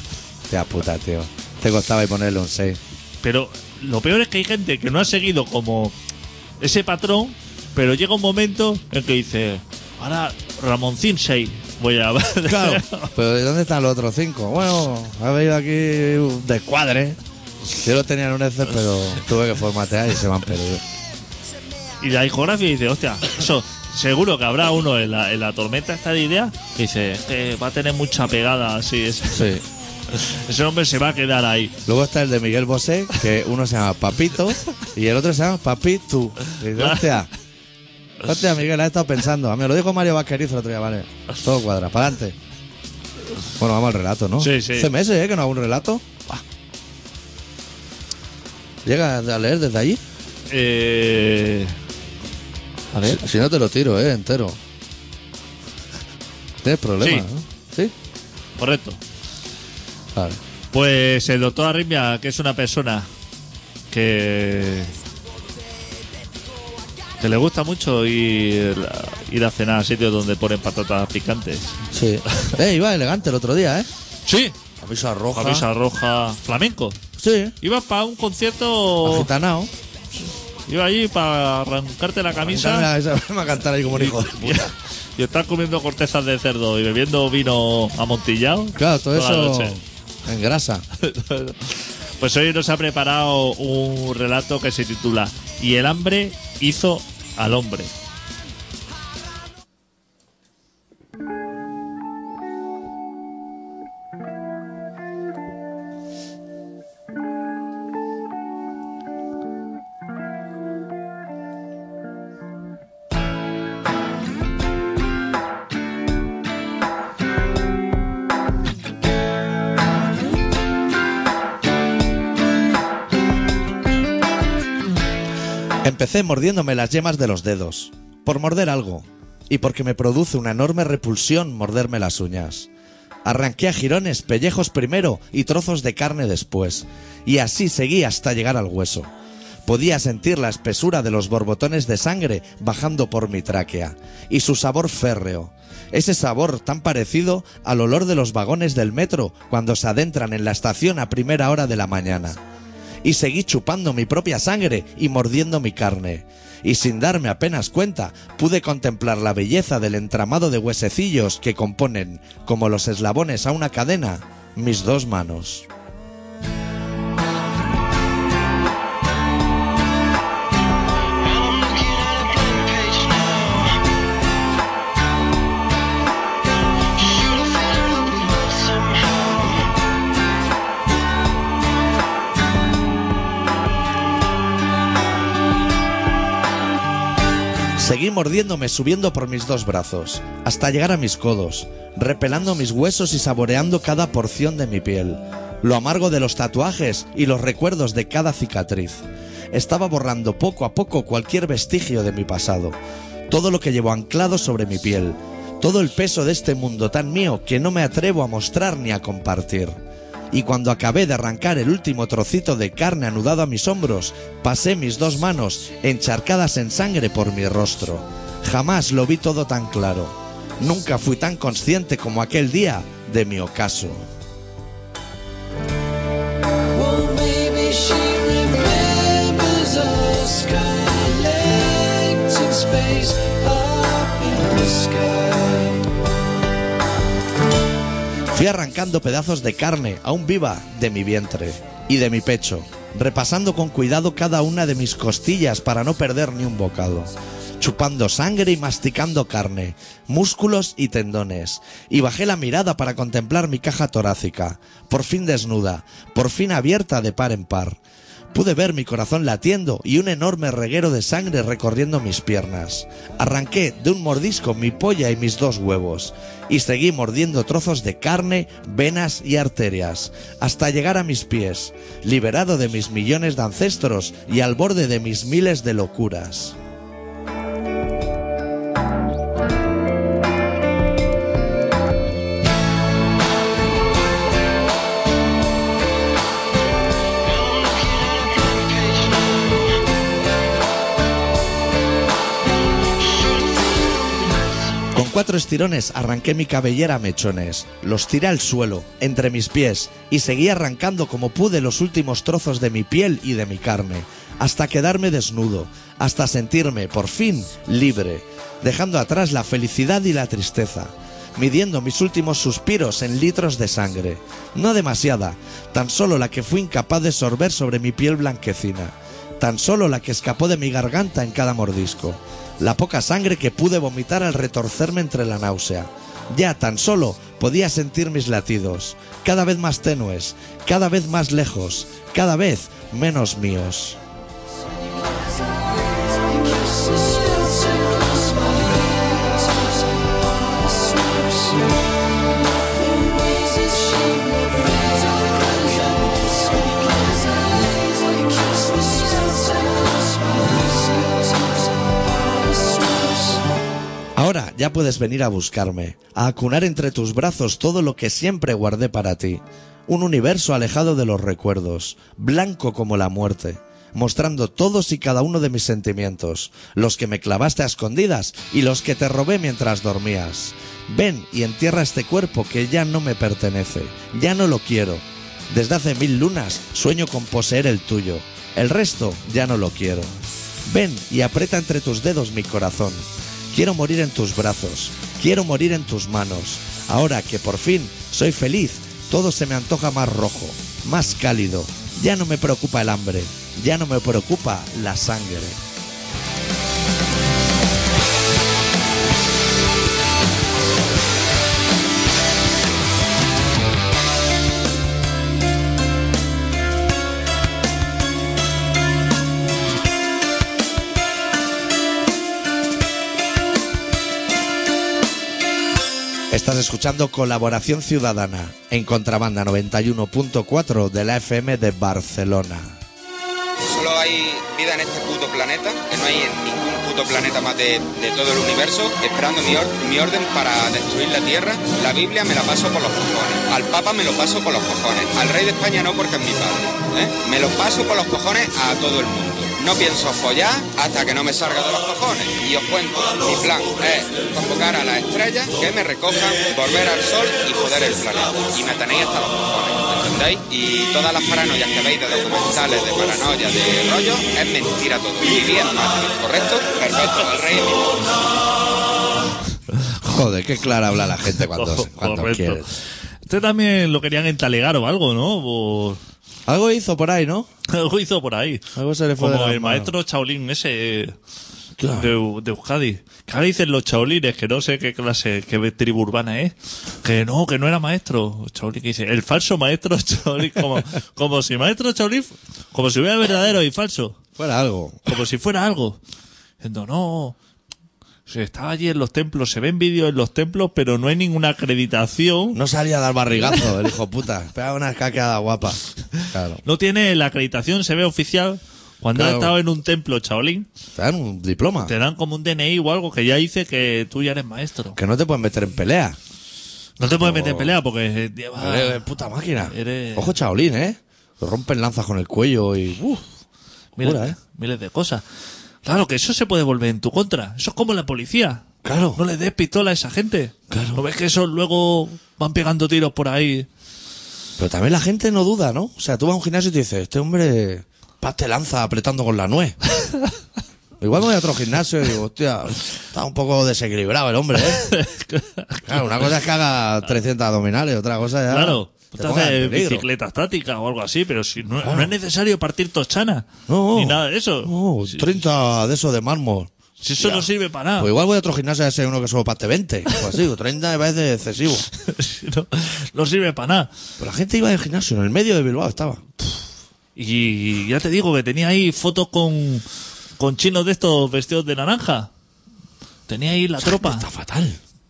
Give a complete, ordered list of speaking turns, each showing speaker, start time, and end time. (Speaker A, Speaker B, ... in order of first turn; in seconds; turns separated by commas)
Speaker A: 0.5-2.8, Speaker B: 3.2-5.9, Speaker B: 6.6-13.1, Speaker A: 12.4-20.8, Speaker B: 22.0-29.6, Speaker A: 29.3-29.6, Speaker B: 30.1-31.7, Speaker A: 31.9-37.3, Speaker B: 36.7-37.0, Speaker A: 38.2-42.4, Speaker A: 43.6-46.4, Speaker B: 44.4-44.9, Speaker A: 48.8-50.0, Speaker B: 50.5-51.7, Speaker B: 52.9-53.2, Speaker A: 53.0-54.6, Speaker A: 56.6-57.9, Speaker B: 57.0-57.3, Speaker B: 58.6-59.0, Speaker B: 60.7-63.1, Speaker B: 63.9-64.9, Speaker B: 67.2-71.7, Speaker A: 71.9-73.9, Speaker B: 74.2-74.5, Speaker A: 74.8-75.7, Speaker B: 75.3-77.0, Speaker A: 77.2-77.5, Speaker B: 77.6-79.3, Speaker A: 79.0-79.7, Speaker B: 80.7-82.9, Speaker A: 82.3-84.7, Speaker B: 83.9-89.8, Speaker A: 88.7-90.8, Speaker B: 91.0-97.9, Speaker A: 125.8-132.7, Speaker A: 133.2-139.1, Speaker A: 139.7-152.4, Speaker A: 153.0-165.7, Speaker C: 171.6-173.3, Speaker A: 187.8-202.8, Speaker A: 203.3-209.8, Speaker A: 210.3-224.0, Speaker C: 226.7-235.8, Speaker A: 238.3-257.8, Speaker A: 258.3-276.6, Speaker A: 294.9-334.0, Speaker C: 336.2-341.7, Speaker C: 342.7-353.4, Speaker A: 354.1-380.1, Speaker A: 380.6-395.6, Speaker A: 416.3-422.8, Speaker D: 423.6-458.1, Speaker A: 460.0-462.7, Speaker B: 461.5-462.7, Speaker B: 463.3-466.0, Speaker A: 466.4-467.5, Speaker B: 467.7-471.1, Speaker A: 468.7-469.9, Speaker A: 471.8-472.1, Speaker B: 471.9-484.2, Speaker A: 484.4-485.1, Speaker B: 485.1-486.0, Speaker B: 486.6-487.4, Speaker B: 488.3-492.6, Speaker A: 492.5-496.6, Speaker B: 496.2-500.7, Speaker A: 499.1-499.5, Speaker A: 500.9-501.9, Speaker B: 501.8-505.0, Speaker A: 504.9-506.2, Speaker B: 507.0-509.1, Speaker A: 507.1-507.7, Speaker A: 508.6-513.2, Speaker B: 509.6-510.3, Speaker B: 514.0-515.2, Speaker A: 514.0-514.4, Speaker B: 515.8-518.6, Speaker A: 518.8-519.2, Speaker B: 519.1-523.7, Speaker A: 520.7-521.0, Speaker A: 524.6-529.8, Speaker B: 530.0-530.3, Speaker A: 531.0-534.9, Speaker B: 534.6-536.2, Speaker A: 535.9-540.0, Speaker B: 538.5-545.3, Speaker A: 541.8-542.1, Speaker A: 543.7-551.9, Speaker B: 547.0-548.1, Speaker B: 551.9-553.9, Speaker A: 554.2-556.2, Speaker B: 557.1-559.8, Speaker B: 560.4-562.3, Speaker B: 563.3-564.3, Speaker A: 563.8-564.8